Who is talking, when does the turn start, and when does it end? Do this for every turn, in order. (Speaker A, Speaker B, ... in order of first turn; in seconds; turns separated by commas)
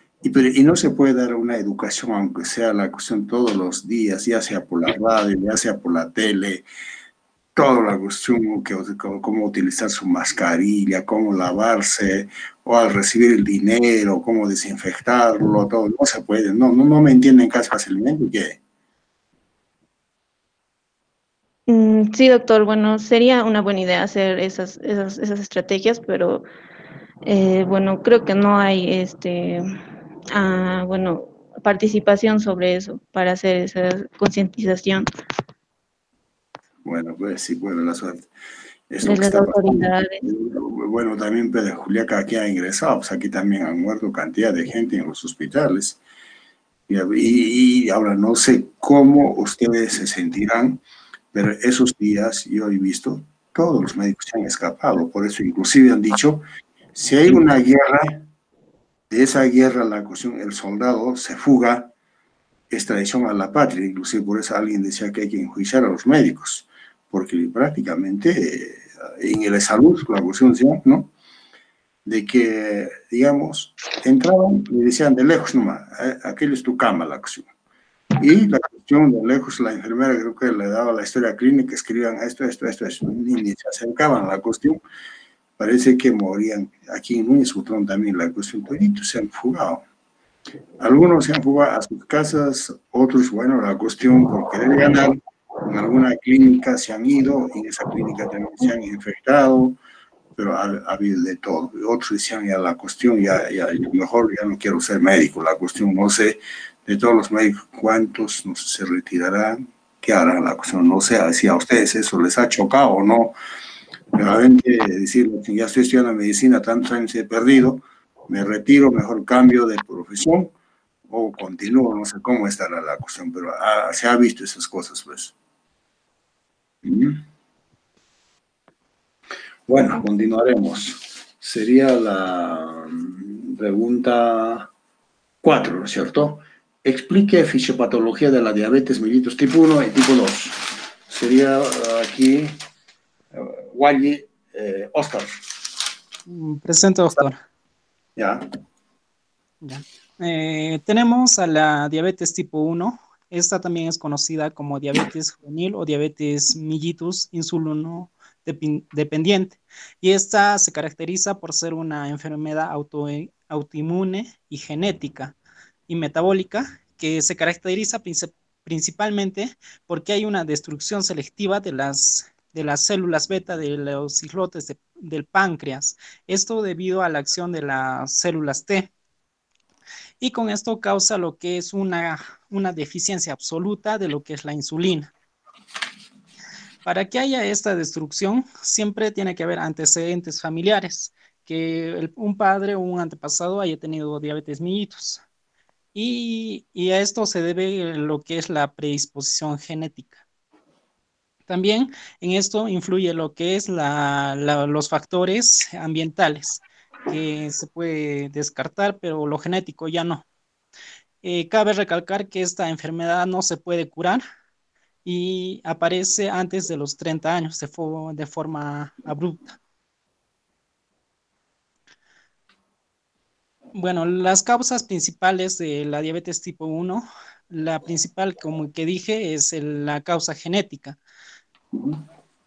Speaker A: 0.2-6.6, Speaker A: 7.5-18.6, Speaker B: 21.7-26.5, Speaker B: 27.2-29.7, Speaker B: 30.3-35.0, Speaker A: 36.8-38.3, Speaker A: 38.9-46.0, Speaker B: 39.0-40.2, Speaker A: 46.9-50.8, Speaker A: 51.3-56.4, Speaker A: 56.9-58.3, Speaker A: 59.1-61.9, Speaker A: 62.7-71.1, Speaker A: 72.0-77.5, Speaker A: 78.2-84.8, Speaker A: 85.6-89.8, Speaker A: 90.8-99.8, Speaker A: 100.3-113.3, Speaker A: 114.1-120.5, Speaker A: 121.1-125.3, Speaker A: 126.8-127.2, Speaker A: 129.7-134.7, Speaker A: 135.4-142.6, Speaker A: 143.3-145.3, Speaker C: 146.3-147.4, Speaker A: 148.2-148.4, Speaker C: 149.6-165.3, Speaker C: 165.9-178.9, Speaker C: 180.2-185.1, Speaker C: 186.8-195.2, Speaker C: 195.9-200.2, Speaker C: 201.5-210.2, Speaker C: 211.2-214.2, Speaker C: 215.0-219.6, Speaker C: 223.7-231.0, Speaker A: 231.7-232.0